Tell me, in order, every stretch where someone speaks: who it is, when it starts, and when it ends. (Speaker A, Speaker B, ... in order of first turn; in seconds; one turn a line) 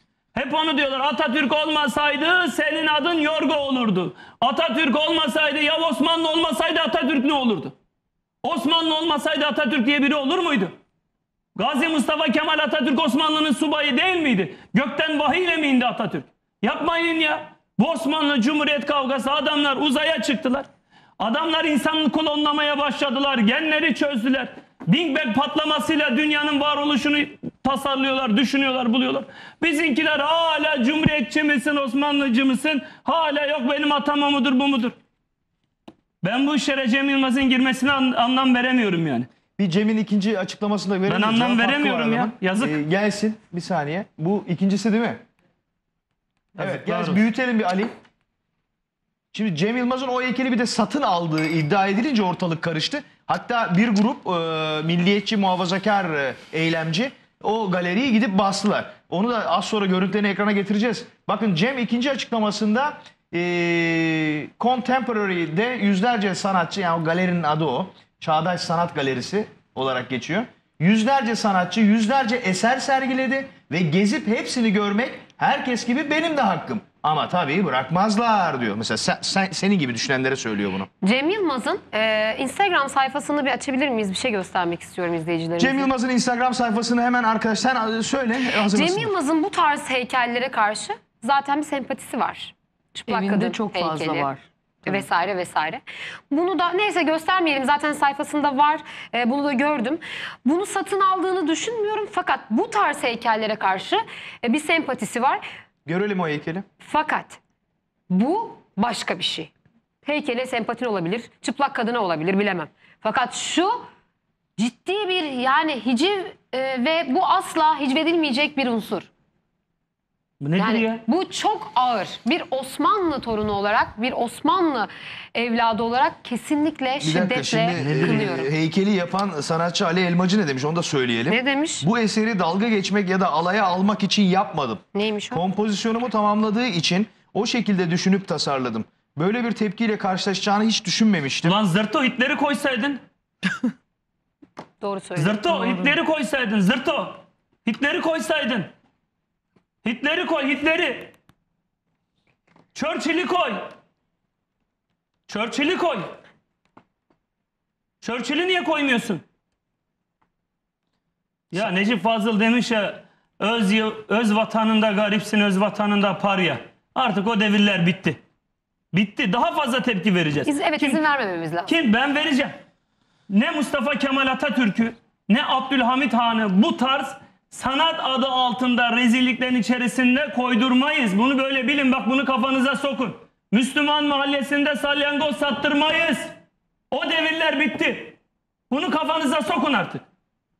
Speaker A: 0.3-7.8
Speaker A: 8.4-10.8
Speaker A: 11.6-20.7
Speaker A: 21.2-35.0
Speaker A: 36.2-39.3
Speaker B: 39.6-45.2
Speaker A: 41.1-42.8
Speaker B: 46.6-47.9
Speaker A: 46.6-47.2
Speaker B: 49.3-80.9
Speaker C: 81.0-85.9
Speaker B: 85.6-89.1
Speaker C: 88.6-94.3
Speaker D: 93.1-95.0
Speaker C: 94.9-105.4
Speaker B: 105.9-106.7
Speaker C: 106.8-107.4
Speaker C: 108.1-109.5
Speaker C: 110.0-113.8
Speaker C: 114.6-119.1
Speaker A: 120.4-121.0
Speaker C: 120.6-128.5
Speaker B: 127.0-141.6
Speaker A: 127.8-128.3
Speaker C: 131.3-131.8
Speaker C: 134.9-135.4
Speaker A: 141.4-143.0
Speaker C: 144.8-145.9
Speaker A: 145.2-148.7
Speaker A: 149.8-151.1
Speaker A: 152.7-153.7
Speaker A: 155.3-156.1
Speaker A: 158.0-159.2
Speaker A: 161.5-168.2
Speaker A: 168.9-171.0
Speaker C: 170.5-171.7
Speaker A: 171.7-172.6
Speaker A: 173.3-186.3
Speaker A: 186.9-188.2
Speaker A: 188.7-190.0